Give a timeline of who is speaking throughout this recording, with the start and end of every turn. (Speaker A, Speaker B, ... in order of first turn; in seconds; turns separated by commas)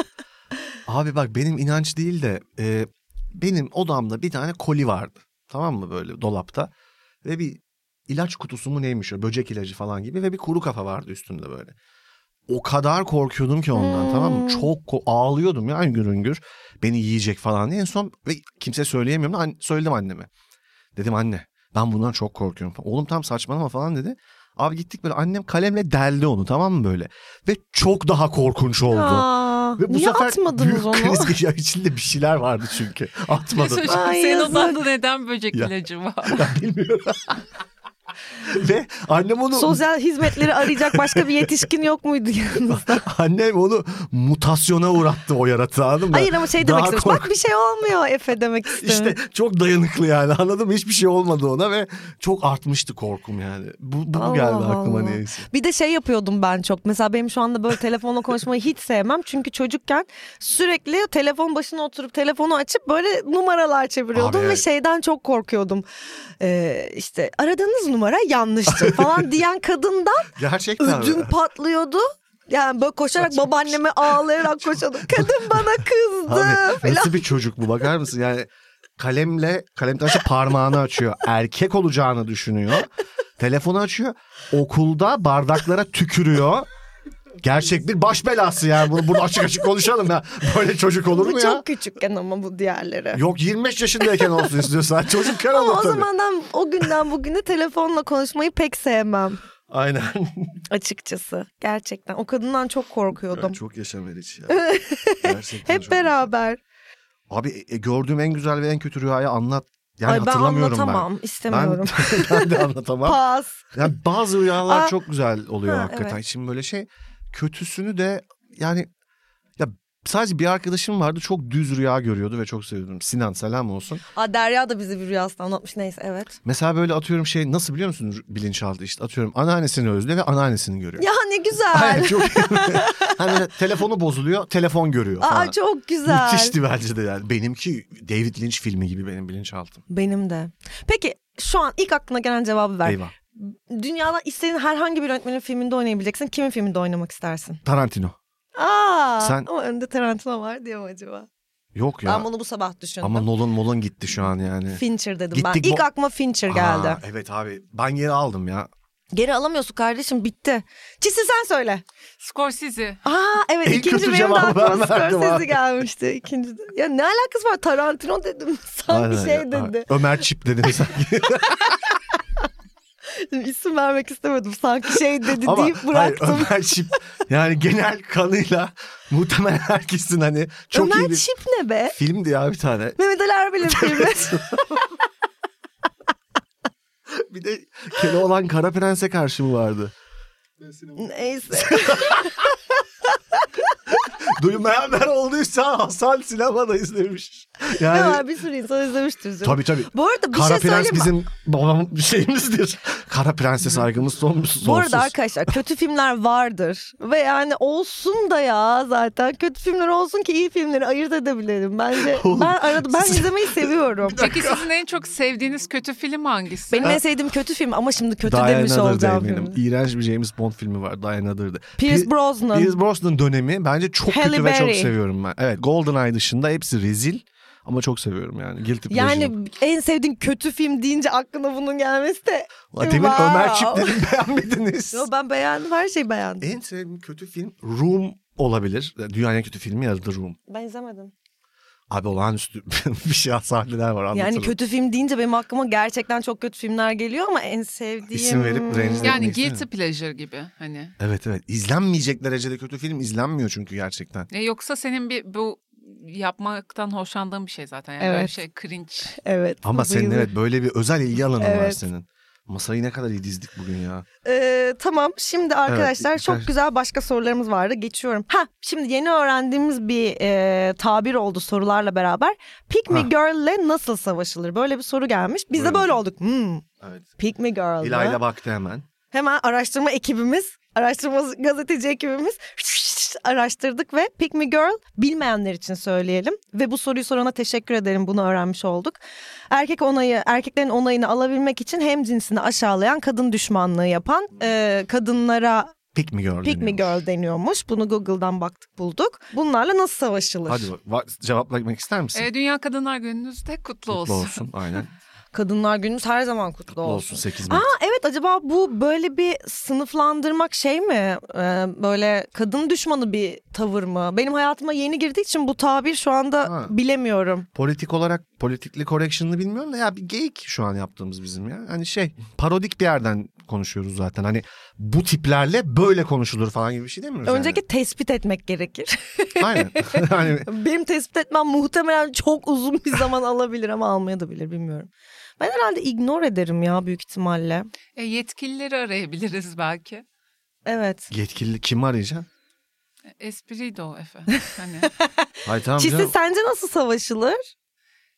Speaker A: 0.8-6.7, Speaker A: 7.2-11.7, Speaker A: 12.5-20.3, Speaker B: 13.8-14.7, Speaker A: 20.9-34.0, Speaker B: 28.9-31.4, Speaker C: 33.5-36.5, Speaker B: 33.9-34.8, Speaker A: 36.2-37.4, Speaker A: 38.4-41.5, Speaker B: 39.5-43.0, Speaker A: 42.7-47.3, Speaker B: 46.1-49.1, Speaker A: 48.7-55.5, Speaker B: 54.1-65.8, Speaker A: 64.1-64.6, Speaker B: 66.4-77.2, Speaker A: 68.7-69.2, Speaker A: 70.3-71.3, Speaker A: 73.2-86.7, Speaker A: 87.4-91.6, Speaker B: 91.1-93.2, Speaker A: 93.1-96.1, Speaker B: 94.1-94.4, Speaker B: 95.4-99.4, Speaker A: 99.7-100.6, Speaker B: 100.7-103.6, Speaker A: 103.3-104.6, Speaker B: 104.5-106.6, Speaker A: 105.2-106.3, Speaker A: 107.3-113.2, Speaker B: 110.0-113.9, Speaker A: 113.7-118.9, Speaker B: 114.6-114.9, Speaker B: 115.7-116.2, Speaker A: 119.6-124.0, Speaker B: 124.1-126.4, Speaker A: 126.4-131.1, Speaker B: 131.0-133.2, Speaker A: 131.7-139.8, Speaker B: 135.2-136.5, Speaker B: 139.9-147.6, Speaker A: 142.8-143.1, Speaker A: 147.6-148.2, Speaker B: 148.6-151.3, Speaker A: 149.2-149.5, Speaker A: 151.7-152.3, Speaker B: 152.0-153.3, Speaker A: 153.0-155.8, Speaker B: 154.7-157.0, Speaker A: 156.5-158.7, Speaker B: 159.1-161.8, Speaker C: 162.2-163.0, Speaker B: 163.0-169.9, Speaker A: 163.6-165.6, Speaker A: 168.9-171.8, Speaker B: 173.1-176.7, Speaker A: 175.3-181.2, Speaker B: 180.7-181.9, Speaker A: 181.9-183.0, Speaker B: 183.0-184.7, Speaker A: 183.6-184.8, Speaker A: 187.1-189.9, Speaker B: 190.9-192.5, Speaker A: 191.5-192.4, Speaker A: 193.9-198.2, Speaker B: 197.8-201.1, Speaker A: 199.4-205.5, Speaker B: 204.6-214.2, Speaker A: 212.0-214.7, Speaker C: 214.2-217.0, Speaker B: 216.7-219.6, Speaker A: 218.2-229.3, Speaker B: 221.8-222.8, Speaker B: 224.1-224.9, Speaker B: 228.9-234.0, Speaker A: 232.7-235.1, Speaker B: 234.9-236.5, Speaker A: 236.4-240.4, Speaker B: 240.5-241.1, Speaker A: 241.9-244.5, Speaker B: 244.1-249.2, Speaker A: 248.1-249.7, Speaker C: 249.0-250.9, Speaker A: 251.0-254.3, Speaker C: 254.3-259.1, Speaker B: 258.0-258.3, Speaker B: 259.1-260.3, Speaker A: 259.6-264.1, Speaker B: 261.4-261.8, Speaker B: 264.2-276.6, Speaker A: 265.7-266.5, Speaker A: 275.5-275.9, Speaker A: 276.8-277.1, Speaker B: 277.2-278.2, Speaker A: 277.8-278.9, Speaker B: 279.1-289.0, Speaker B: 289.5-295.8, Speaker A: 295.9-297.0, Speaker B: 296.4-300.7, Speaker A: 300.5-302.3, Speaker C: 302.1-304.4, Speaker A: 303.9-304.9, Speaker B: 305.3-317.5, Speaker A: 306.7-307.7, Speaker A: 316.4-316.7, Speaker A: 317.5-327.6, Speaker B: 327.2-337.7, Speaker A: 329.4-330.5, Speaker C: 337.9-340.0, Speaker B: 340.6-341.1, Speaker A: 341.1-342.3, Speaker C: 343.2-344.9, Speaker B: 344.3-345.1, Speaker A: 345.4-346.1, Speaker B: 345.8-347.4